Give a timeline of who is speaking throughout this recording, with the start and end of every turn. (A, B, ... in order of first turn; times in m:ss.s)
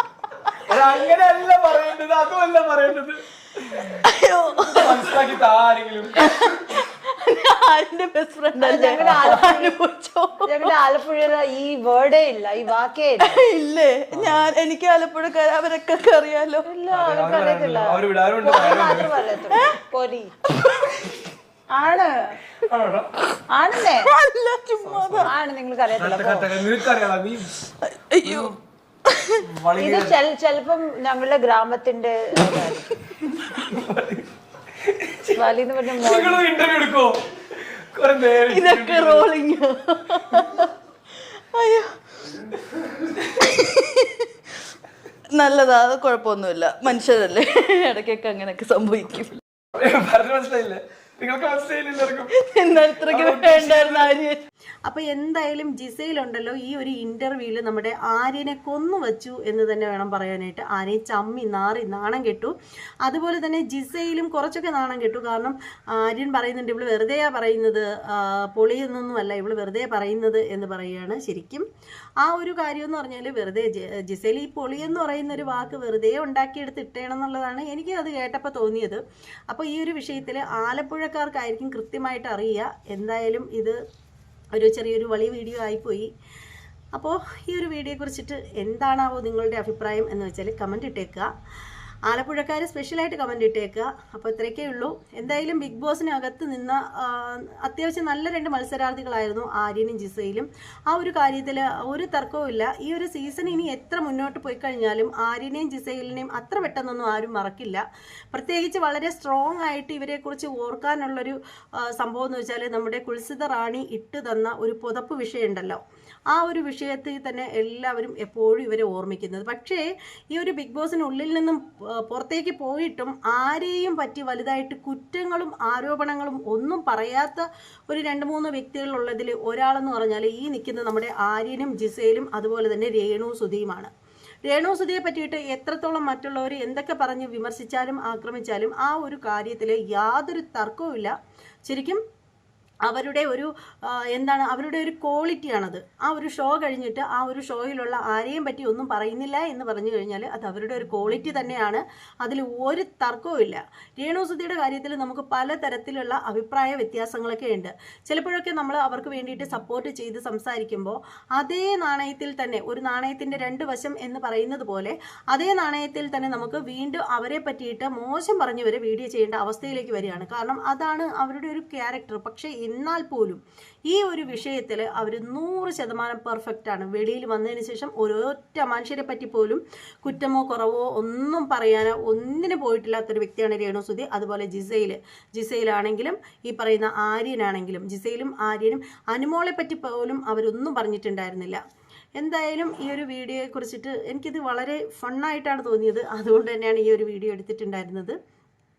0:00.6-0:04.0 A
0:04.0-0:05.3 B
0:04.7-0:06.5 A
0:06.2-0:10.8 B
0:08.6-0:09.8 C
0:09.1-0:09.4 A
0:10.5-0:13.4 C
0:13.2-0:16.7 B
0:14.1-0:14.4 A
0:16.7-0:20.3 C
0:16.9-0:19.3 A
0:19.5-0:19.8 B
0:20.5-0:21.1 B
0:21.7-0:22.4 C
0:22.7-0:23.1 A
0:23.5-0:24.1 C
0:23.9-0:25.3 B
0:24.8-0:25.3 A
0:25.2-0:26.5 C
0:26.0-0:27.5 A
0:27.8-0:28.5 B
0:28.2-0:28.6 A
0:29.1-0:29.4 B
0:29.4-0:30.2 A
0:29.8-0:33.0 C
0:33.4-0:34.3 A
0:34.9-0:35.4 A
0:35.4-0:36.4 C
0:36.0-0:39.3 A
0:38.5-0:40.7 B
0:41.5-0:42.0 B
0:43.3-0:44.2 B
0:45.3-0:49.4 B
0:49.8-0:52.3 A
0:52.4-0:54.4 B
0:53.0-0:54.1 A
0:54.9-1:11.7 D
1:12.2-1:23.8 D
1:24.5-1:26.1 D
1:27.0-1:31.3 D
1:32.1-2:13.9 D
2:14.5-2:21.1 D
2:21.7-2:22.0 D
2:22.8-3:11.6 D
3:12.2-3:18.2 D